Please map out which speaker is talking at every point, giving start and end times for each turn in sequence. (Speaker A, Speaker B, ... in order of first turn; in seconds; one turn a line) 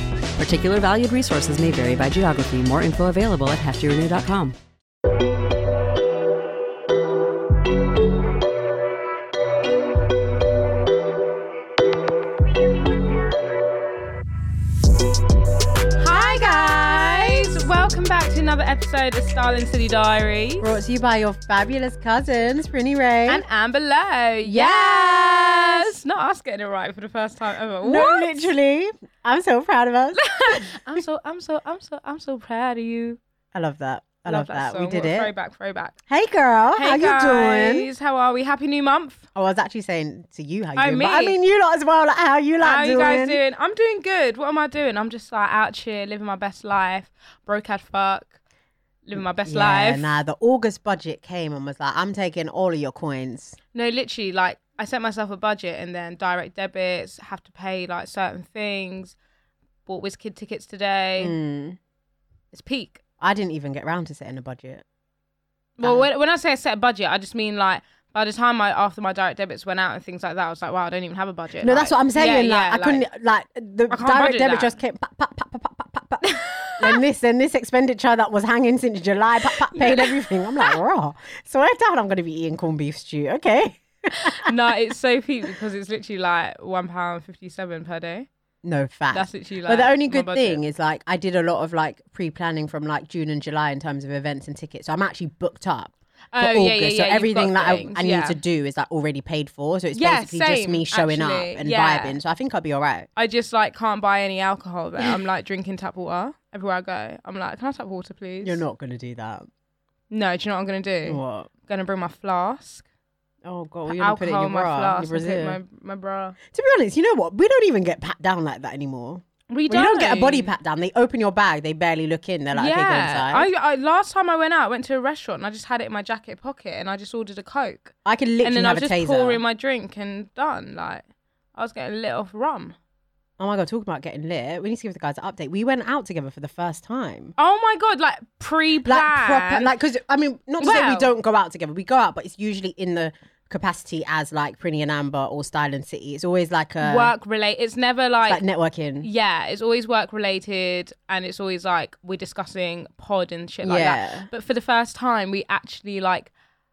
Speaker A: 0.4-4.5
Speaker B: 16.0-20.7
Speaker C: 16.1-17.6
Speaker C: 20.6-23.4
Speaker B: 23.3-28.5
Speaker C: 24.4-25.9
Speaker C: 27.8-30.2
Speaker B: 30.1-33.2
Speaker C: 33.5-35.3
Speaker B: 34.2-36.0
Speaker C: 36.1-37.9
Speaker B: 36.7-39.2
Speaker C: 39.3-43.4
Speaker B: 40.8-41.4
Speaker B: 42.6-48.3
Speaker B: 49.0-50.1
Speaker C: 49.2-53.6
Speaker B: 53.7-59.1
Speaker B: 59.9-61.3
Speaker C: 61.2-61.8
Speaker B: 62.5-63.0
Speaker C: 63.2-64.8
Speaker B: 65.8-73.0
Speaker C: 65.8-66.1
Speaker C: 71.6-84.5
Speaker B: 73.9-74.7
Speaker B: 76.2-77.0
Speaker B: 79.4-80.7
Speaker B: 84.2-88.3
Speaker C: 88.6-103.1
Speaker B: 89.1-90.6
Speaker B: 96.3-98.4
Speaker B: 99.9-102.2
Speaker B: 103.2-108.6
Speaker C: 108.4-109.5
Speaker B: 110.1-112.8
Speaker C: 111.0-111.5
Speaker C: 113.4-115.6
Speaker B: 113.9-116.4
Speaker C: 116.5-123.5
Speaker B: 119.5-120.5
Speaker B: 122.5-132.8
Speaker C: 128.0-129.4
Speaker C: 133.4-137.3
Speaker B: 137.4-139.7
Speaker C: 138.8-147.1
Speaker B: 140.6-141.1
Speaker B: 146.8-148.4
Speaker C: 148.2-149.1
Speaker B: 149.0-156.3
Speaker C: 153.6-154.3